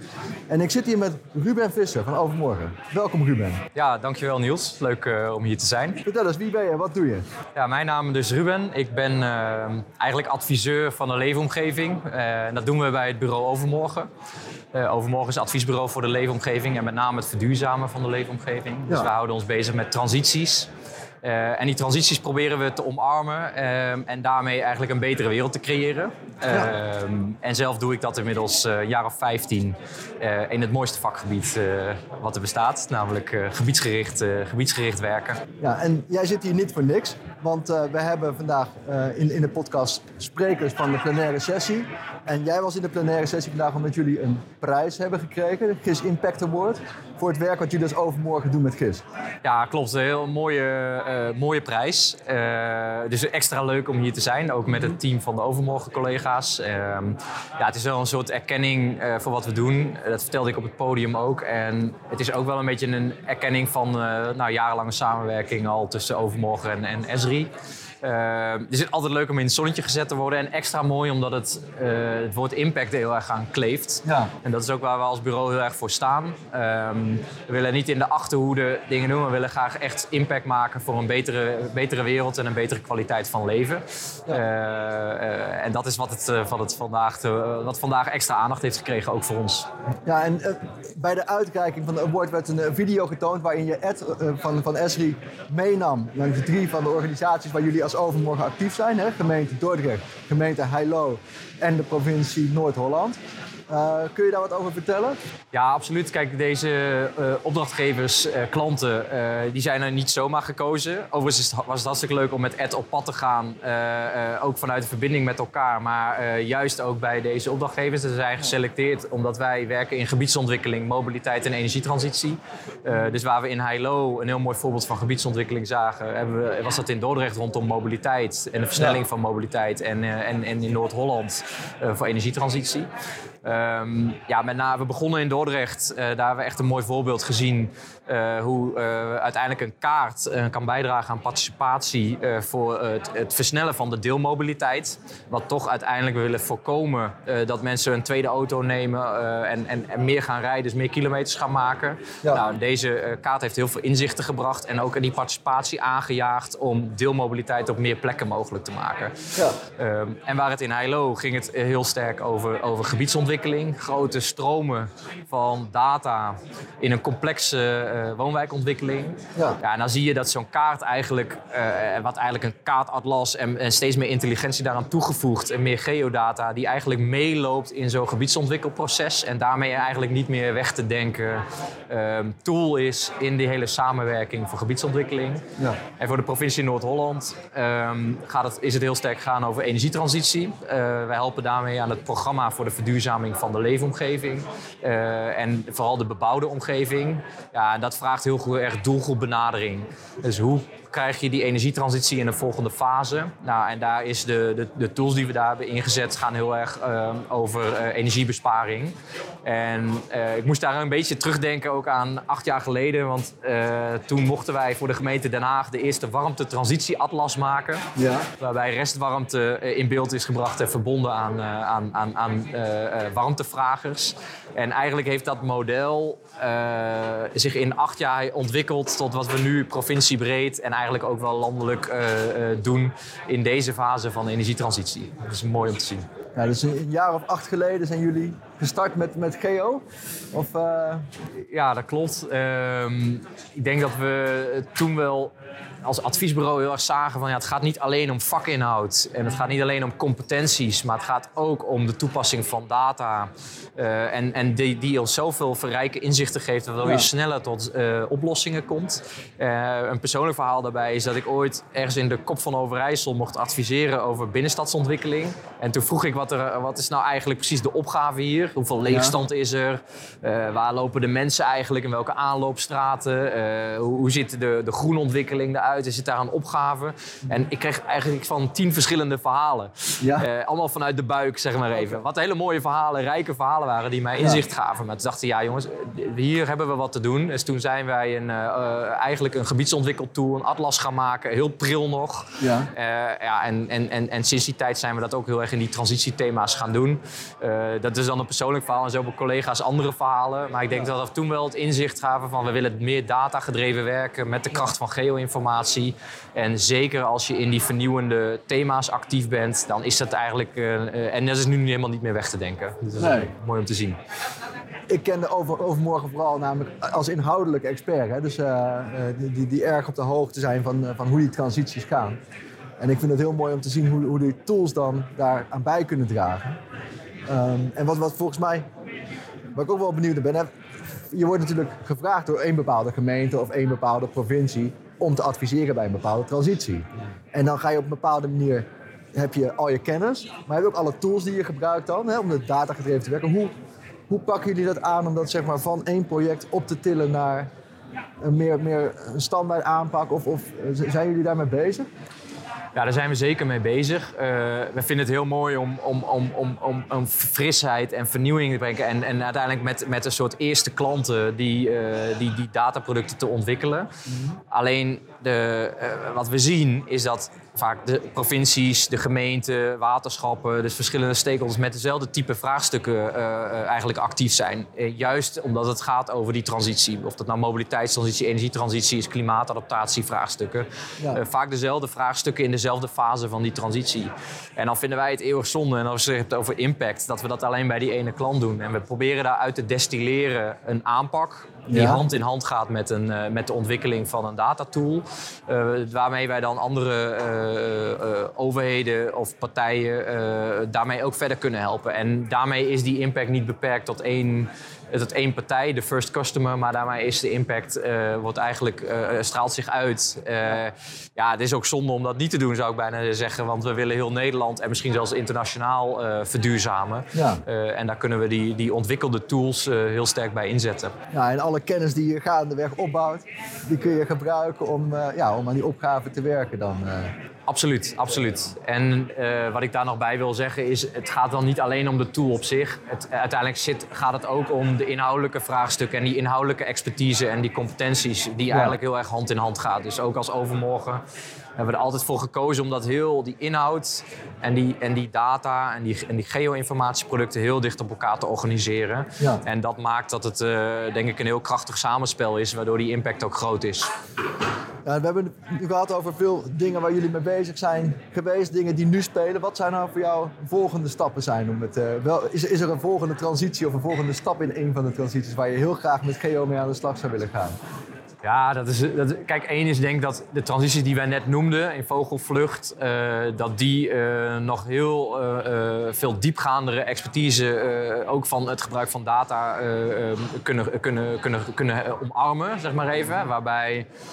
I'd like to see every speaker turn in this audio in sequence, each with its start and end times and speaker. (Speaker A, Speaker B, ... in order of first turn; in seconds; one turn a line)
Speaker A: 0.5-3.6
Speaker B: 3.7-6.0
Speaker A: 6.0-7.2
Speaker B: 7.5-14.1
Speaker B: 14.7-20.7
Speaker B: 21.2-35.4
Speaker A: 35.6-49.0
Speaker B: 49.4-89.7
Speaker A: 74.0-74.3
Speaker A: 90.0-103.2
Speaker A: 103.7-105.2
Speaker B: 105.5-132.9
Speaker B: 133.4-185.4
Speaker B: 186.0-217.8
Speaker A: 217.9-218.3
Speaker B: 218.4-236.1
Speaker A: 236.3-241.0
Speaker B: 241.4-245.3
Speaker B: 245.8-314.0
Speaker A: 268.9-269.1
Speaker A: 280.0-280.2
Speaker A: 292.4-292.7
Speaker A: 313.0-313.3
Speaker A: 314.9-322.2
Speaker A: 322.8-326.6
Speaker A: 327.3-328.6
Speaker A: 329.5-330.5
Speaker A: 331.1-343.5
Speaker A: 344.1-347.5
Speaker A: 348.2-351.9
Speaker B: 352.7-363.9
Speaker B: 364.5-420.9
Speaker A: 391.7-392.0
Speaker A: 417.1-417.4
Speaker A: 421.1-427.1
Speaker B: 427.5-441.0
Speaker A: 438.5-438.8
Speaker B: 441.6-453.9
Speaker A: 454.8-467.6
Speaker B: 468.2-483.9